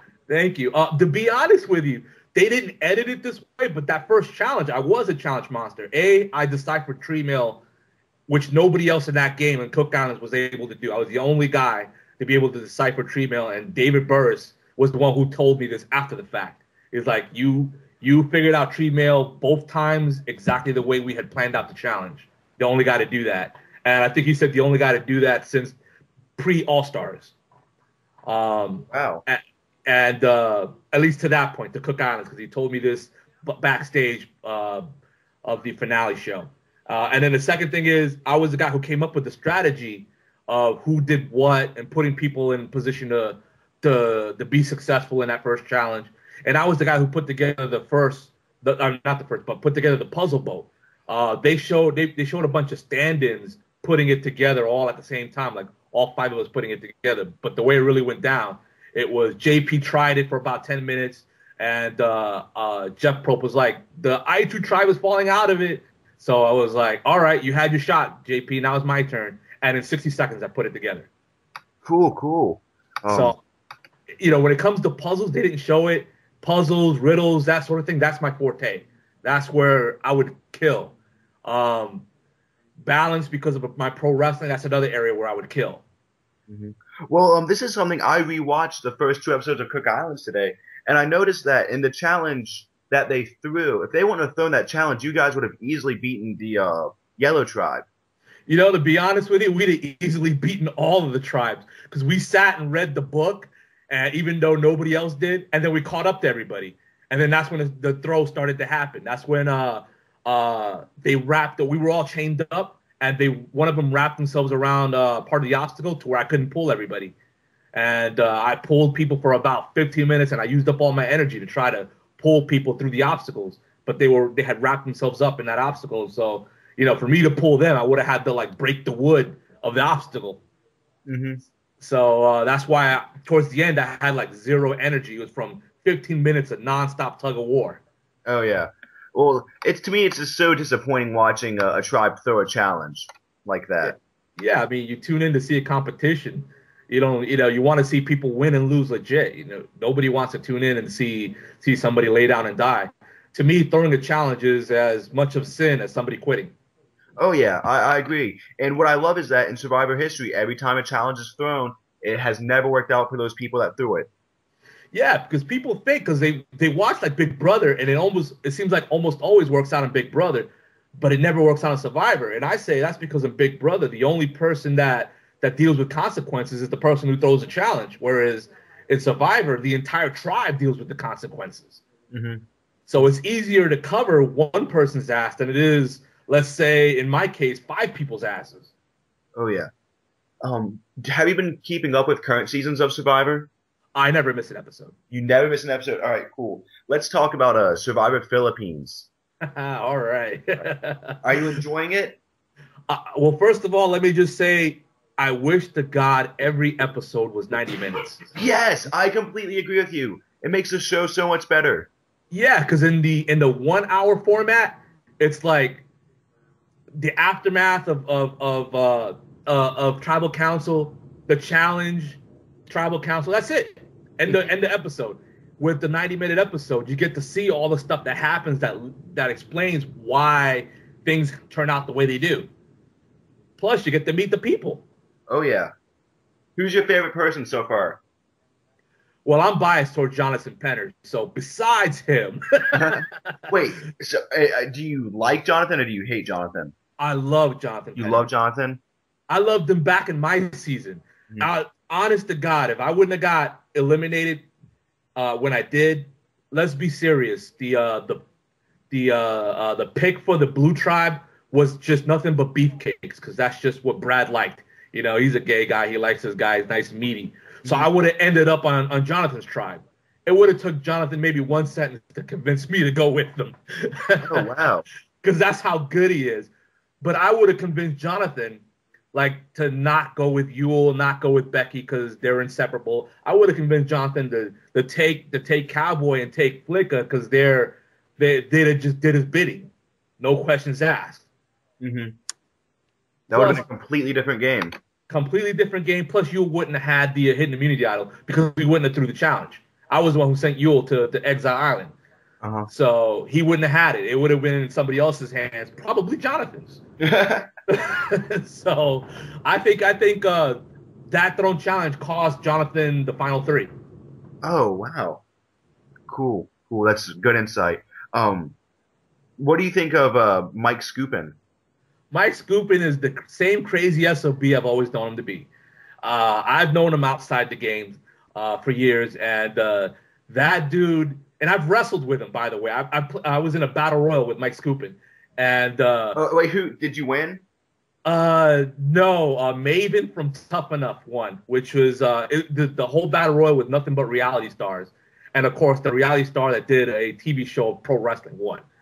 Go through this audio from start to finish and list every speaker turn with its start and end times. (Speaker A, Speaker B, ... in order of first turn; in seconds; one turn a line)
Speaker A: 0.3-7.6
Speaker A: 8.3-25.8
Speaker A: 26.4-27.4
Speaker A: 28.3-34.9
Speaker B: 28.9-29.2
Speaker A: 35.5-71.1
Speaker B: 71.8-73.3
Speaker A: 73.1-73.4
Speaker A: 74.2-82.1
Speaker A: 82.8-85.8
Speaker B: 86.5-97.8
Speaker A: 98.5-117.2
Speaker A: 117.7-130.4
Speaker B: 131.1-131.4
Speaker A: 131.8-137.8
Speaker B: 138.3-144.0
Speaker A: 143.8-156.5
Speaker B: 157.2-164.1
Speaker A: 164.9-181.8
Speaker B: 182.1-182.4
Speaker A: 182.9-188.7
Speaker B: 189.4-189.7
Speaker B: 190.4-193.5
Speaker A: 193.9-194.9
Speaker B: 195.1-199.1
Speaker A: 199.4-201.2
Speaker B: 201.2-202.2
Speaker A: 202.9-208.3
Speaker B: 208.3-211.9
Speaker A: 212.3-215.8
Speaker A: 216.9-232.5
Speaker A: 233.6-234.9
Speaker B: 235.3-235.7
Speaker B: 236.6-238.0
Speaker A: 239.2-243.5
Speaker B: 242.7-246.7
Speaker A: 247.0-248.3
Speaker B: 248.0-248.8
Speaker A: 249.3-254.5
Speaker A: 255.2-258.2
Speaker A: 258.9-274.5
Speaker B: 274.2-274.9
Speaker A: 275.2-276.5
Speaker A: 277.0-291.3
Speaker B: 291.8-292.2
Speaker B: 293.3-294.8
Speaker A: 293.3-293.7
Speaker A: 295.1-301.9
Speaker B: 302.4-302.7
Speaker A: 302.7-306.8
Speaker B: 307.0-307.5
Speaker A: 307.7-313.7
Speaker B: 314.4-315.2
Speaker B: 316.1-318.6
Speaker B: 319.4-321.4
Speaker A: 322.1-325.5
Speaker A: 326.0-336.2
Speaker B: 336.1-337.4
Speaker A: 338.1-348.6